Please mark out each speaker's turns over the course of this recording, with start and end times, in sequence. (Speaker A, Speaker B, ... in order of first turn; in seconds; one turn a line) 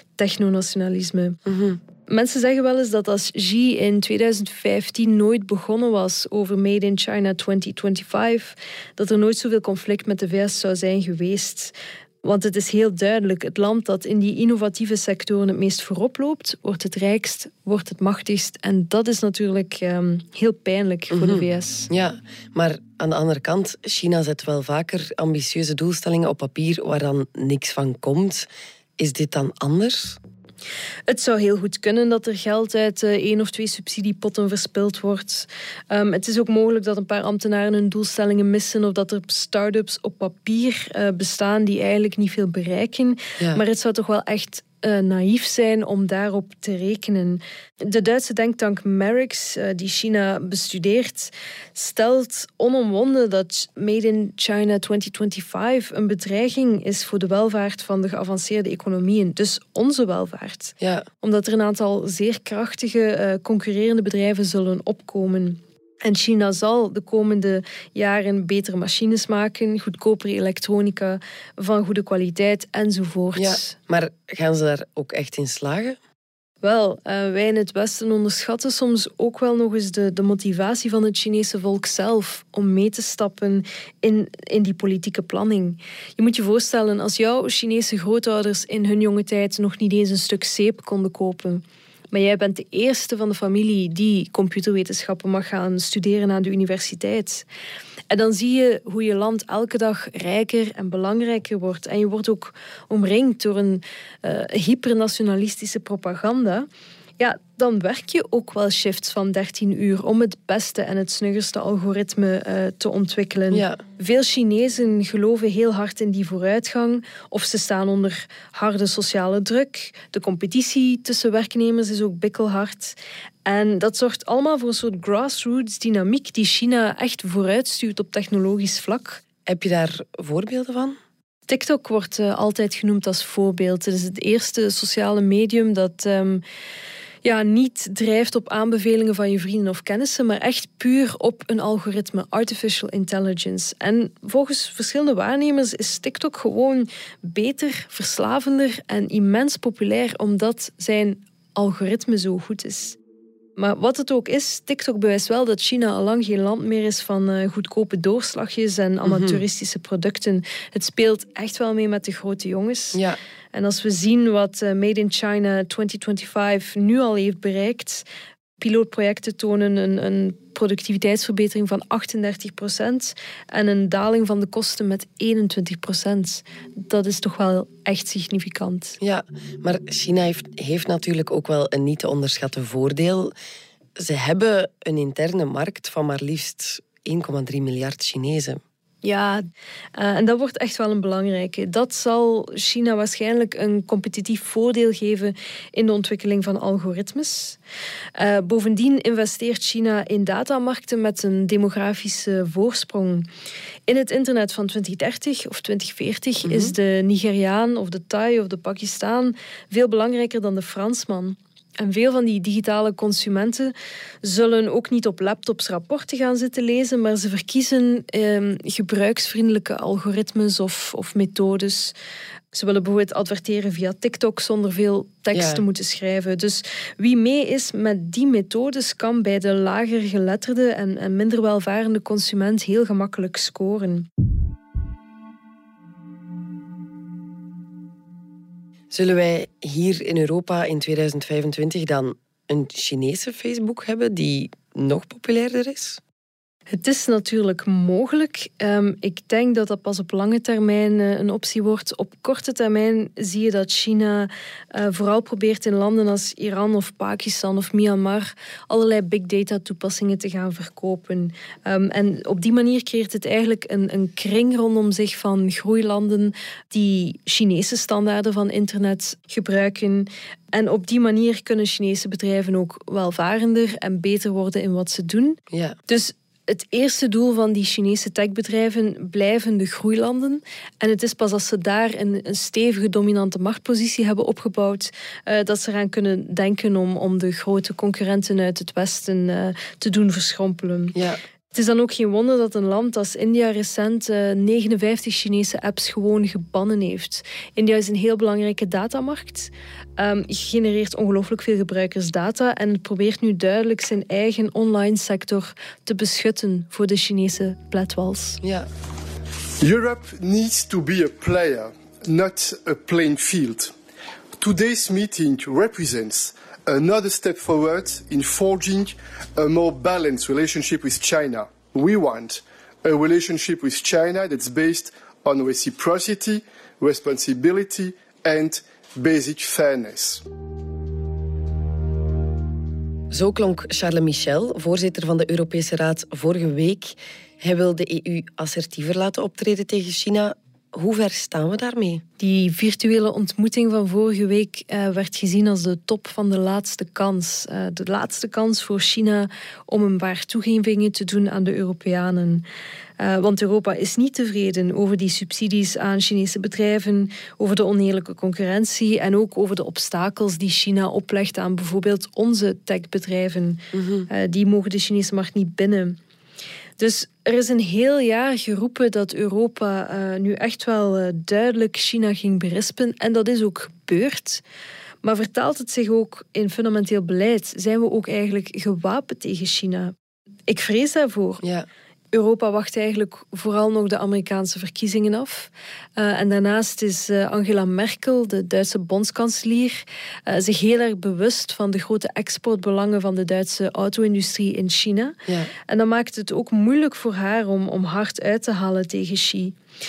Speaker A: 0.2-1.4
Speaker B: 1.4-1.8
Speaker A: 2.1-21.9
Speaker B: 21.1-30.2
Speaker A: 31.1-73.7
Speaker B: 60.8-61.1
Speaker B: 73.3-76.0
Speaker A: 76.6-97.5
Speaker A: 98.1-106.7
Speaker A: 107.2-129.2
Speaker B: 113.5-113.8
Speaker B: 129.4-131.0
Speaker A: 131.5-136.4
Speaker A: 137.2-153.0
Speaker A: 153.6-163.0
Speaker B: 159.0-159.4
Speaker B: 162.9-163.2
Speaker A: 163.5-168.0
Speaker A: 168.6-179.0
Speaker B: 179.0-183.3
Speaker B: 184.0-188.6
Speaker A: 189.0-197.6
Speaker A: 198.1-203.3
Speaker A: 203.9-221.9
Speaker B: 206.4-206.7
Speaker A: 222.5-234.1
Speaker B: 225.3-225.6
Speaker B: 238.9-246.0
Speaker A: 246.7-290.9
Speaker B: 275.5-275.8
Speaker B: 290.9-291.2
Speaker A: 291.5-308.4
Speaker B: 308.4-308.7
Speaker C: 309.6-313.7
Speaker C: 314.4-330.2
Speaker B: 333.1-342.0
Speaker A: 342.2-352.4
Speaker A: 353.0-366.0
Speaker B: 363.7-364.1
Speaker A: 366.8-374.4
Speaker A: 375.0-379.9
Speaker A: 380.5-381.4
Speaker A: 382.1-399.5
Speaker B: 395.3-395.5